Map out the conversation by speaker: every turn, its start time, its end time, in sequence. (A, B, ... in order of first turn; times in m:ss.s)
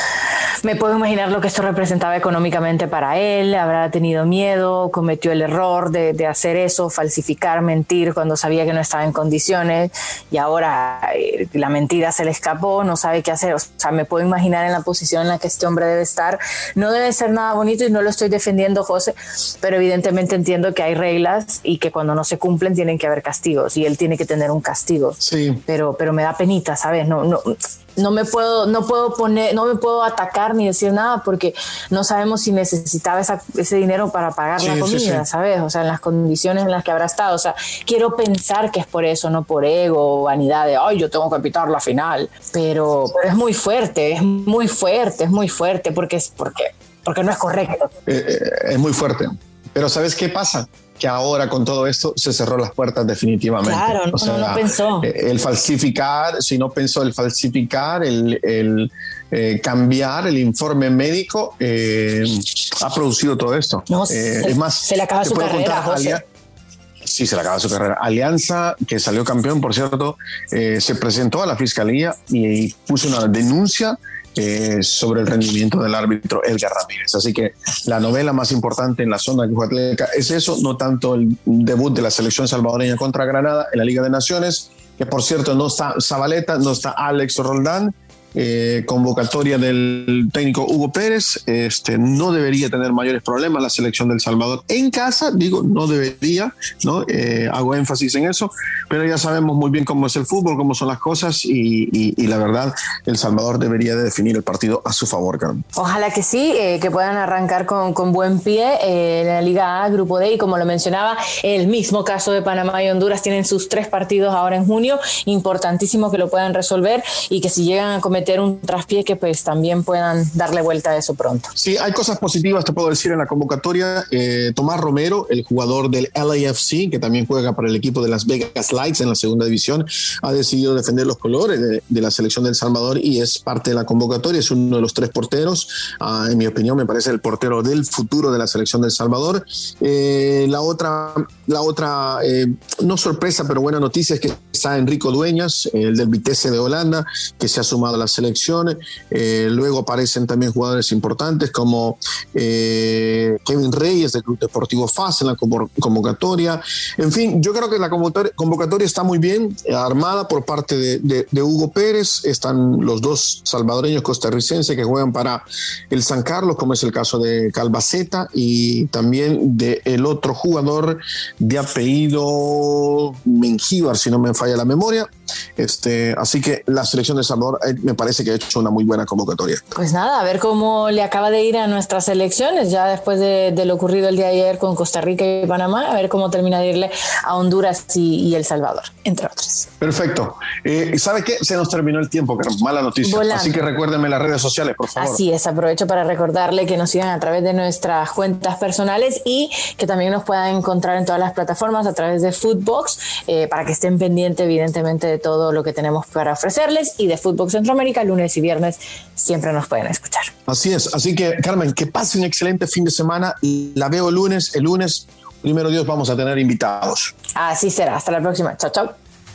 0:00.6-0:47.9 A
0:25.2-0:25.6 B
0:34.6-0:35.2 B
0:48.0-1:06.2 B
0:53.6-0:55.1 A
1:03.9-1:06.2 A
1:07.0-1:45.6 B
1:45.8-2:01.5 A
2:01.6-2:59.7 B
2:59.7-3:09.7 A
3:09.8-3:15.2 B
3:13.0-3:13.6 A
3:15.0-3:30.3 A
3:30.5-3:37.1 B
3:37.4-3:38.9 A